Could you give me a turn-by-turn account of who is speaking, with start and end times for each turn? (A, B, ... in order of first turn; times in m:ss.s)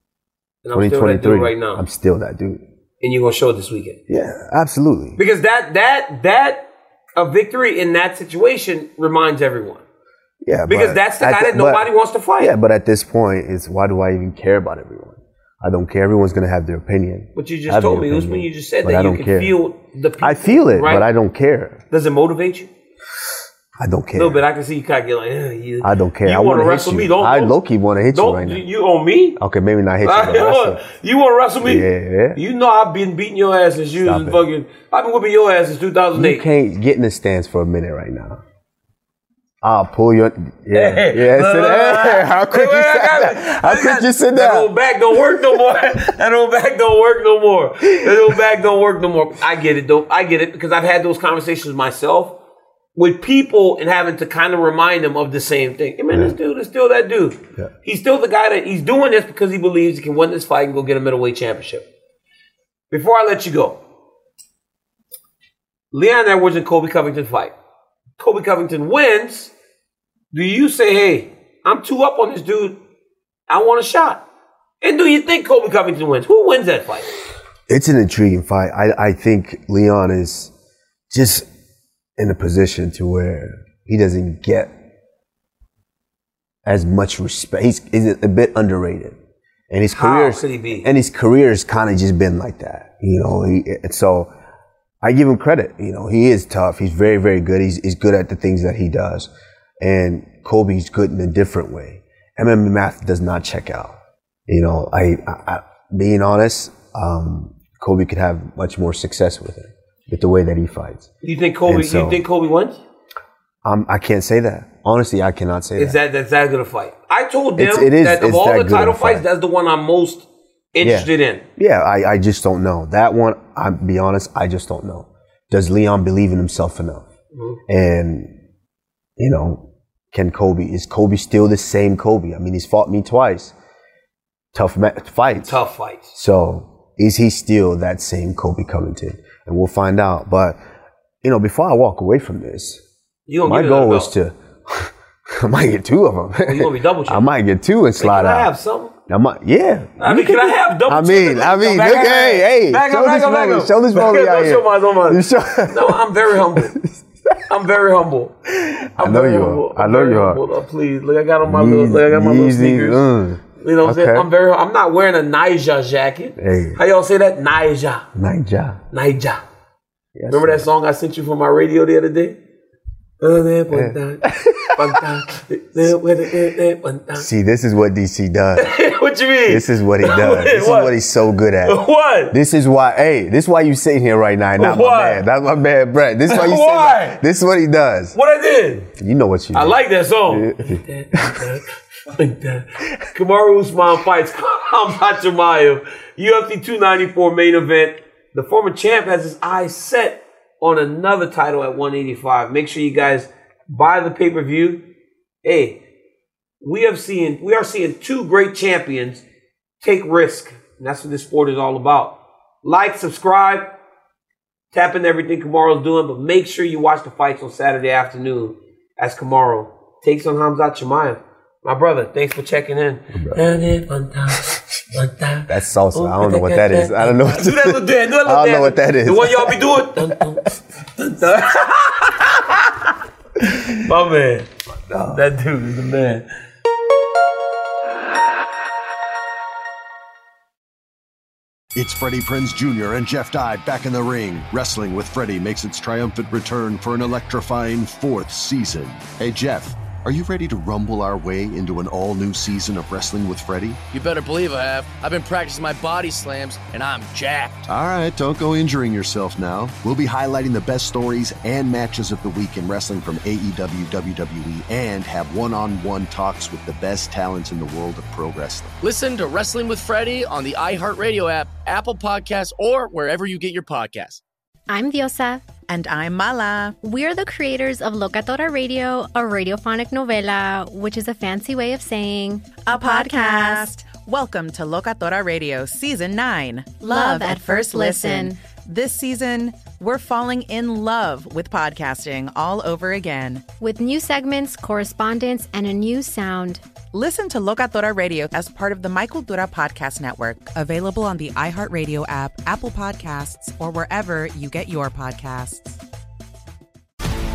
0:00.6-0:01.8 A
0:00.7-0:02.6 B
0:03.0-0:04.0 A
0:04.1-0:05.2 B
0:05.2-0:09.8 A
0:10.4-0:19.6 B
0:10.7-0:12.5 A
0:17.4-0:21.1 A
0:20.2-0:21.8 B
0:21.9-0:22.7 A
0:23.8-0:24.4 B
0:24.1-0:27.6 A
0:25.8-0:28.6 B
0:28.1-0:29.4 A
0:29.4-0:30.8 B
0:30.0-0:36.5 A
0:31.6-0:32.4 B
0:34.0-0:34.4 B
0:36.2-0:38.4 B
0:39.6-0:44.7 B
0:40.7-0:52.4 A
0:53.0-1:01.9 A
1:02.9-1:03.8 A
1:05.9-1:07.5 A
1:08.2-1:09.5 A
1:10.3-1:12.8 A
1:13.5-1:14.3 A
1:14.8-1:17.2 A
1:17.7-1:20.5 B
1:21.1-1:21.5 B
1:22.2-1:24.7 B
1:26.7-1:29.2 B
1:29.7-1:34.3 B
1:30.0-1:30.9 A
1:35.0-1:39.3 B
1:39.8-1:44.0 B
1:44.5-1:51.1 B
1:51.2-1:52.8 A
1:51.7-1:52.2 B
1:53.6-1:56.0 B
1:55.8-2:01.4 A
1:57.6-1:59.2 B
2:00.8-2:07.1 B
2:07.3-2:07.6 A
2:07.7-2:08.3 B
2:09.2-2:13.5 B
2:14.5-2:15.6 B
2:15.4-2:16.1 A
2:16.1-2:20.6 B
2:21.2-2:22.8 B
2:23.3-2:24.1 A
2:23.4-2:28.5 B
2:26.4-2:27.3 A
2:28.0-2:28.9 A
2:29.1-2:37.4 B
2:30.0-2:36.8 A
2:37.5-2:38.3 A
2:38.5-2:40.4 B
2:39.0-2:43.0 A
2:41.4-2:44.3 B
2:43.6-2:48.0 A
2:46.4-2:46.8 B
2:48.1-2:48.8 B
2:48.9-2:49.4 A
2:50.2-2:50.7 B
2:50.3-2:52.4 A
2:53.2-2:57.3 A
2:53.7-2:54.7 B
2:57.2-2:58.7 B
2:58.6-3:01.0 A
2:59.5-3:08.2 B
3:01.6-3:02.4 A
3:04.6-3:05.2 A
3:06.3-3:07.2 A
3:08.1-3:08.9 A
3:08.8-3:11.4 B
3:09.5-3:24.8 A
3:25.4-3:25.8 A
3:26.6-3:29.2 A
3:29.8-3:33.7 A
3:34.7-3:54.5 A
3:43.1-3:43.4 B
3:45.5-3:50.0 B
3:54.9-3:55.2 B
3:55.1-3:56.3 A
4:01.8-4:13.8 C
4:13.9-4:17.7 D
4:17.7-4:28.7 C
4:28.8-4:34.2 D
4:34.7-4:35.4 E
4:35.7-4:36.8 F
4:36.8-4:43.6 E
4:42.6-4:53.5 F
4:46.8-4:48.4 E
4:53.6-4:56.6 E
4:56.9-5:05.8 F